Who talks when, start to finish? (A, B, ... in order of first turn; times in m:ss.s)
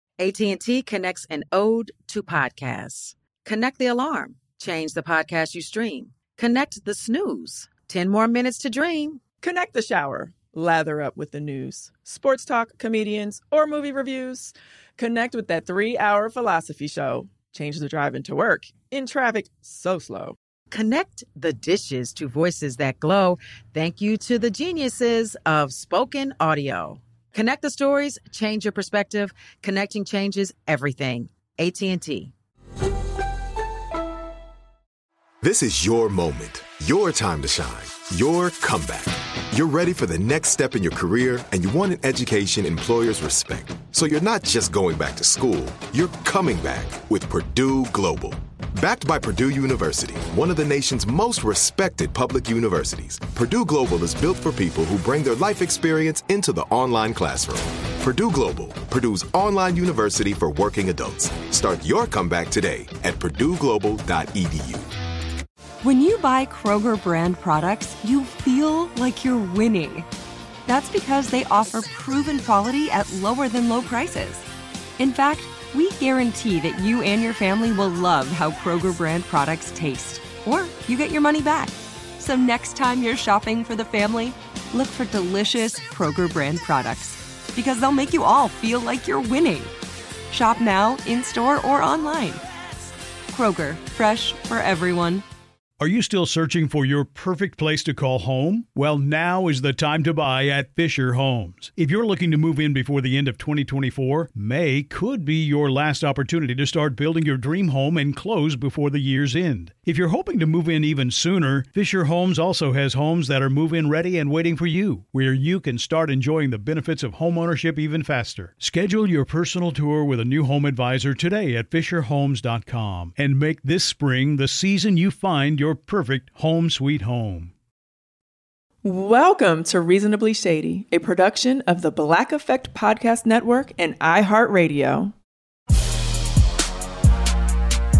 0:00.2-0:09.2 A
0:09.4-0:20.4 B
0:20.7-0:32.3 A
0:35.4-1:04.9 C
1:05.8-1:10.1 D
1:10.7-1:14.4 D
1:15.0-1:29.7 D
1:30.3-1:32.4 D
1:33.3-1:35.2 D
1:35.8-2:07.5 E
2:08.8-2:15.1 B